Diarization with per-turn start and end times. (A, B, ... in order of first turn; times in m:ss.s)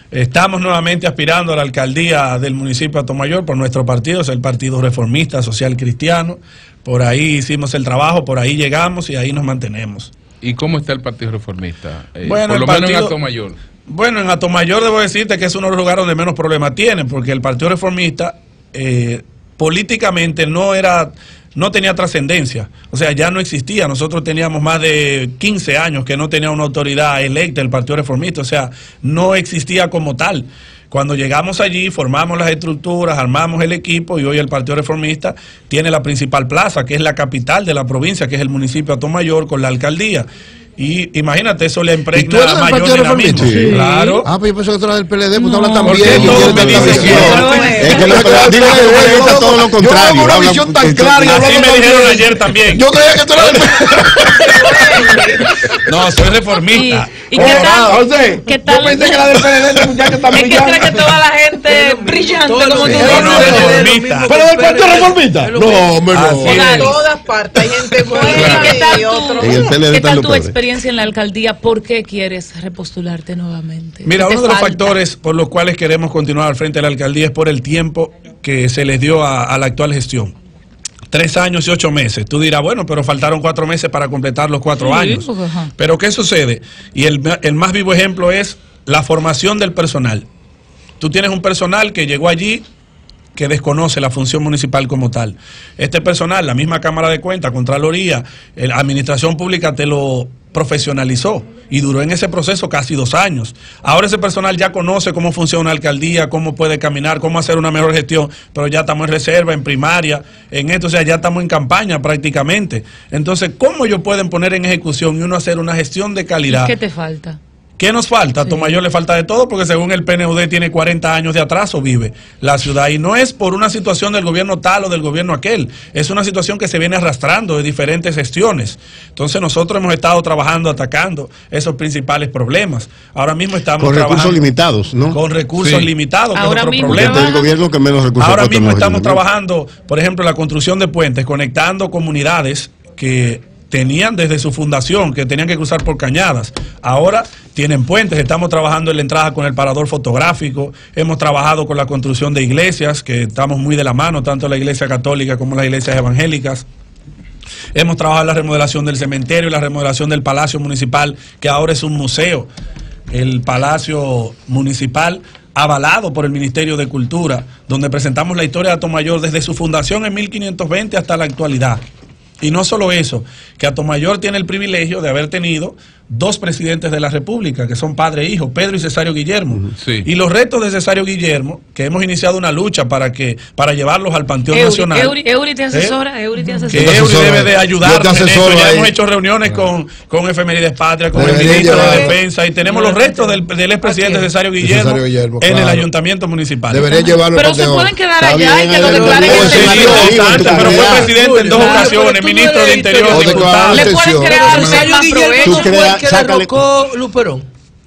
0:00.1-0:10.1 A
0:10.4-0:13.6 B
0:12.2-0:13.2 A
0:13.9-0:44.3 A
0:42.1-0:55.9 C
0:43.4-0:43.7 D
0:43.4-0:44.2 E
0:45.4-0:48.4 E
0:45.8-0:47.8 A
0:46.1-0:51.5 D
0:46.7-0:49.0 F
0:51.2-0:52.8 A
0:53.4-0:53.7 A
0:54.8-0:55.2 F
0:55.9-0:57.9 A
0:56.7-0:59.6 E
0:57.3-1:01.1 C
1:00.3-1:03.9 E
1:01.6-1:06.3 G
1:02.9-1:04.4 A
1:04.3-1:06.7 C
1:06.1-1:07.0 A
1:06.4-1:07.0 E
1:06.6-1:09.8 F
1:08.1-1:08.6 G
1:08.2-1:08.8 B
1:08.3-1:15.0 E
1:09.4-1:10.6 D
1:14.0-1:20.3 A
1:21.1-1:30.3 A
1:24.8-1:25.7 E
1:31.0-1:32.7 A
1:33.4-1:56.7 A
1:56.5-1:57.4 E
1:57.8-2:14.4 A
1:58.4-1:58.8 E
2:13.8-2:15.2 D
2:15.1-2:17.3 A
2:15.6-2:15.9 B
2:16.4-2:17.5 E
2:16.9-2:19.2 D
2:18.2-2:36.7 A
2:37.8-2:42.5 A
2:43.1-2:51.8 A
2:52.4-3:05.2 A
2:59.8-3:00.1 B
3:04.5-3:07.0 E
3:06.7-3:16.9 A
3:06.7-3:08.9 C
3:11.1-3:12.2 C
3:11.6-3:12.2 F
3:12.6-3:13.3 E
3:13.8-3:14.2 E
3:14.6-3:15.9 C
3:16.7-3:18.0 C
3:17.0-3:20.3 E
3:18.2-3:21.1 D
3:18.8-3:27.5 G
3:19.2-3:20.8 C
3:19.5-3:23.8 A
3:23.1-3:24.9 C
3:23.7-3:25.8 E
3:25.4-3:26.5 D